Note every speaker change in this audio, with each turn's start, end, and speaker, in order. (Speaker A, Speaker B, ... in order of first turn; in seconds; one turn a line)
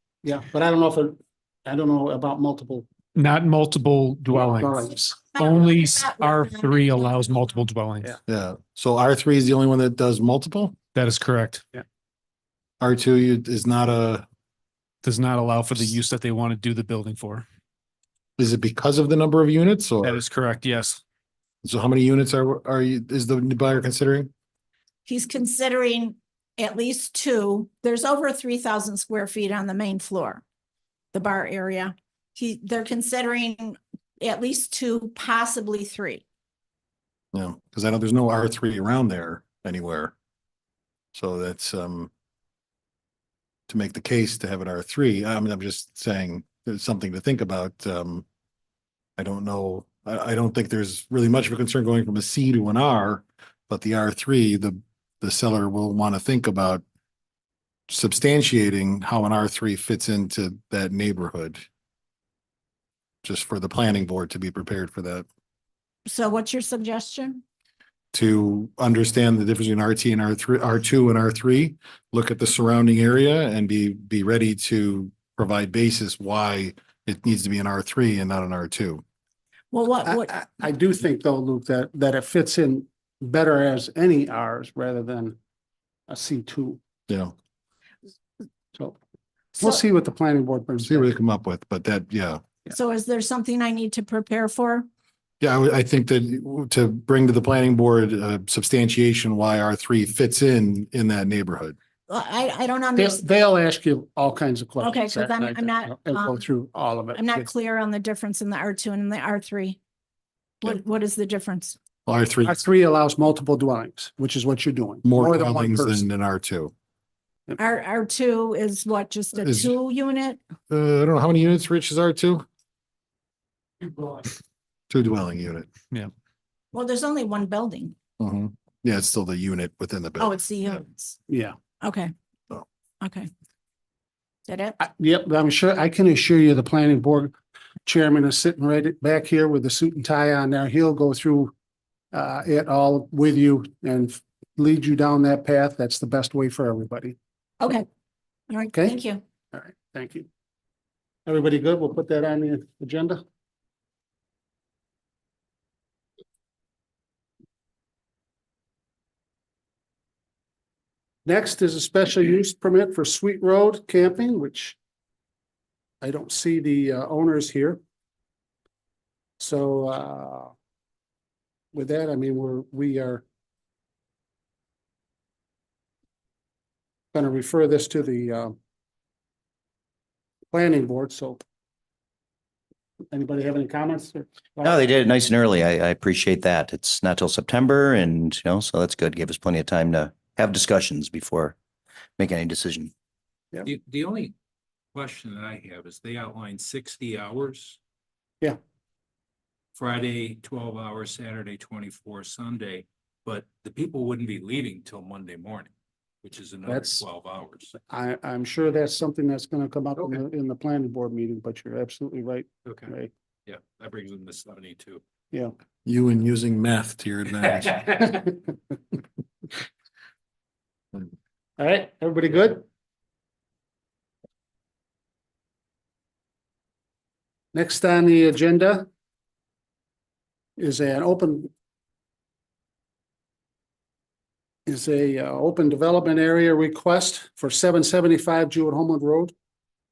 Speaker A: 0.2-2.9
Speaker B: 3.1-8.2
Speaker A: 4.3-5.2
Speaker C: 5.3-7.6
Speaker D: 8.3-10.8
Speaker B: 10.9-11.6
Speaker D: 12.8-14.2
Speaker B: 15.0-17.4
Speaker D: 18.4-20.2
Speaker B: 20.0-21.0
Speaker D: 21.6-24.3
Speaker C: 25.1-30.4
Speaker C: 31.1-36.2
Speaker D: 37.3-40.1
Speaker D: 41.1-42.1
Speaker D: 43.7-48.2
Speaker D: 49.2-56.8
Speaker D: 57.9-61.6
Speaker D: 63.2-65.2
Speaker C: 66.1-67.4
Speaker D: 68.1-79.0
Speaker C: 79.7-80.3
Speaker A: 80.0-85.3
Speaker A: 86.1-86.8
Speaker D: 87.1-87.3
Speaker A: 89.6-91.1
Speaker D: 90.8-92.4
Speaker C: 92.7-94.9
Speaker D: 95.4-101.8
Speaker C: 102.1-103.2
Speaker A: 103.0-107.5
Speaker C: 104.8-106.4
Speaker C: 107.1-109.8
Speaker C: 110.6-111.8
Speaker D: 112.0-112.5
Speaker A: 112.4-116.0
Speaker D: 115.0-116.7
Speaker C: 117.6-120.4
Speaker D: 119.4-119.7
Speaker D: 120.7-122.4
Speaker D: 124.9-125.7
Speaker C: 126.7-127.9
Speaker D: 128.2-130.3
Speaker C: 130.2-131.2
Speaker A: 131.3-131.6
Speaker C: 131.8-132.1
Speaker C: 133.0-133.3
Speaker C: 134.5-134.8
Speaker A: 134.8-137.3
Speaker A: 137.8-141.5
Speaker A: 142.1-147.2
Speaker C: 147.6-147.8
Speaker C: 148.5-149.2
Speaker A: 148.7-149.0
Speaker A: 149.5-150.3
Speaker A: 151.2-153.2
Speaker A: 161.2-164.8
Speaker A: 166.0-167.8
Speaker A: 169.4-170.5
Speaker A: 171.7-173.2
Speaker A: 177.1-178.5
Speaker A: 180.5-181.4
Speaker A: 183.1-184.8
Speaker E: 184.6-191.6
Speaker E: 192.2-192.9
Speaker F: 193.6-194.3
Speaker F: 194.9-197.8
Speaker F: 199.8-205.7
Speaker F: 206.2-207.7
Speaker A: 206.7-207.1
Speaker A: 207.8-213.1
Speaker F: 212.7-212.9
Speaker F: 213.5-215.0
Speaker D: 215.8-217.9
Speaker A: 218.0-218.5
Speaker A: 221.6-222.6
Speaker A: 227.5-228.9
Speaker A: 230.6-231.5
Speaker A: 234.7-239.3